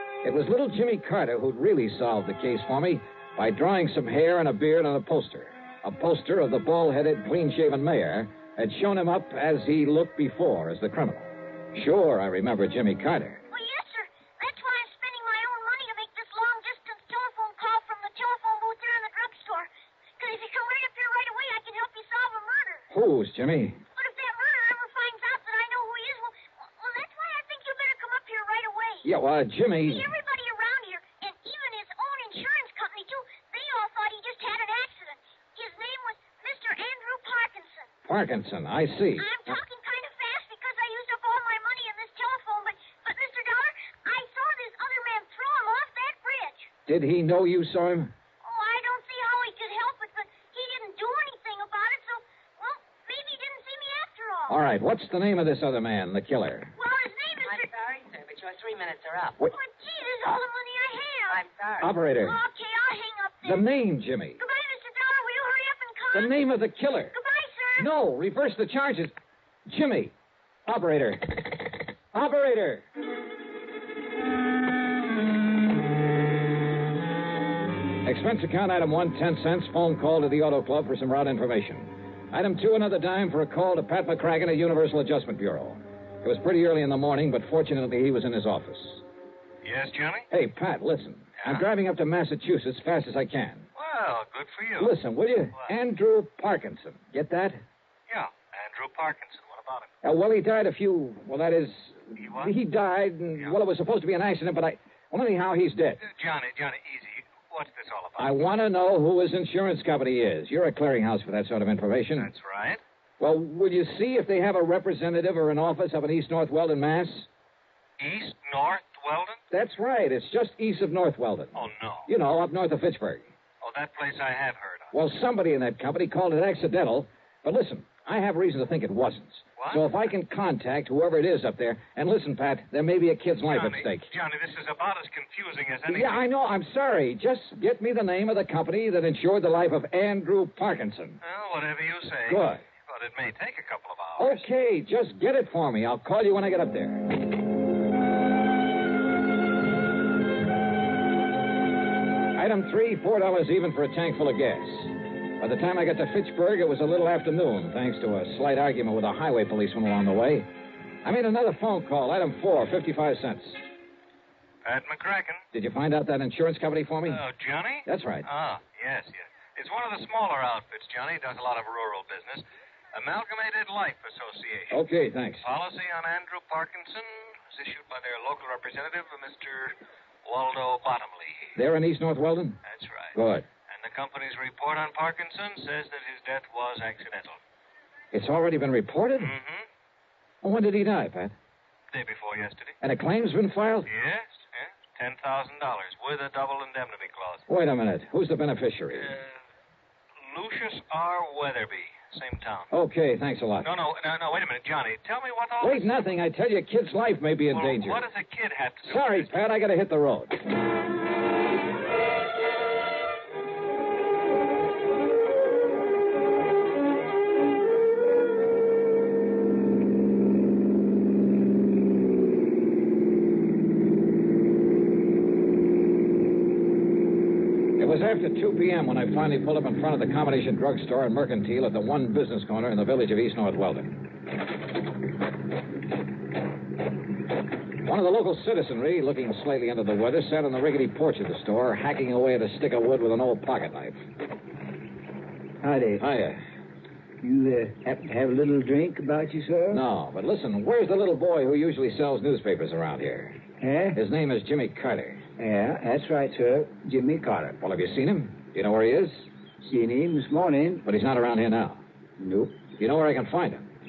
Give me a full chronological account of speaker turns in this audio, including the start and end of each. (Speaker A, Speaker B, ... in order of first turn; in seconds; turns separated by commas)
Speaker A: 0.2-13.4, Speaker B: 13.5-22.9, Speaker A: 22.9-23.8, Speaker B: 23.9-29.1, Speaker A: 29.0-30.1, Speaker B: 29.8-37.9, Speaker A: 38.0-39.6, Speaker B: 39.2-46.7, Speaker A: 46.9-48.1, Speaker B: 48.4-54.6, Speaker A: 54.5-56.7, Speaker B: 56.8-57.7, Speaker C: 57.4-59.4, Speaker B: 59.4-61.4, Speaker C: 61.3-62.0, Speaker A: 61.8-62.4, Speaker B: 62.0-63.7, Speaker A: 63.4-64.4, Speaker B: 64.4-66.3, Speaker A: 66.1-67.2, Speaker B: 67.1-67.9, Speaker A: 67.8-69.1, Speaker A: 69.7-70.1, Speaker A: 70.7-72.8, Speaker A: 78.0-89.0, Speaker D: 89.6-90.3, Speaker A: 90.3-93.7, Speaker D: 93.8-94.9, Speaker A: 94.8-97.6, Speaker D: 98.1-99.9, Speaker A: 100.0-106.0, Speaker D: 102.2-102.5, Speaker D: 106.0-108.3, Speaker A: 108.2-112.3, Speaker D: 112.2-112.8, Speaker A: 113.2-117.3, Speaker D: 118.0-119.4, Speaker A: 119.5-123.3, Speaker D: 121.5-122.0, Speaker D: 123.6-124.9, Speaker A: 124.9-134.1, Speaker D: 129.6-129.8, Speaker D: 133.5-136.1, Speaker A: 135.9-141.2, Speaker D: 141.2-144.4, Speaker A: 142.3-142.6, Speaker A: 144.2-147.2, Speaker A: 152.3-160.5, Speaker A: 161.0-163.6, Speaker D: 164.6-165.4, Speaker A: 165.5-167.2, Speaker D: 167.1-174.8, Speaker A: 167.8-168.3, Speaker A: 174.7-175.4, Speaker D: 175.4-181.6, Speaker A: 181.6-182.6, Speaker D: 182.7-183.2, Speaker A: 183.1-183.4, Speaker D: 183.7-187.4, Speaker A: 188.1-189.3, Speaker D: 189.2-189.6, Speaker A: 190.4-191.3, Speaker D: 191.9-192.7, Speaker A: 192.8-193.9, Speaker D: 193.8-197.4, Speaker A: 197.5-199.1, Speaker D: 198.9-199.3, Speaker D: 200.3-202.7, Speaker A: 202.7-203.8, Speaker D: 203.6-205.9, Speaker A: 205.6-208.1, Speaker D: 207.5-209.3, Speaker A: 208.8-210.4, Speaker A: 227.8-234.1, Speaker A: 237.8-244.0, Speaker E: 245.6-246.1, Speaker A: 246.0-246.4, Speaker E: 247.2-249.8, Speaker A: 249.7-253.4, Speaker E: 253.6-254.0, Speaker A: 253.9-255.2, Speaker E: 255.4-257.6, Speaker A: 257.6-259.3, Speaker E: 259.6-260.8, Speaker A: 260.8-261.8, Speaker E: 262.2-262.6, Speaker A: 262.8-263.7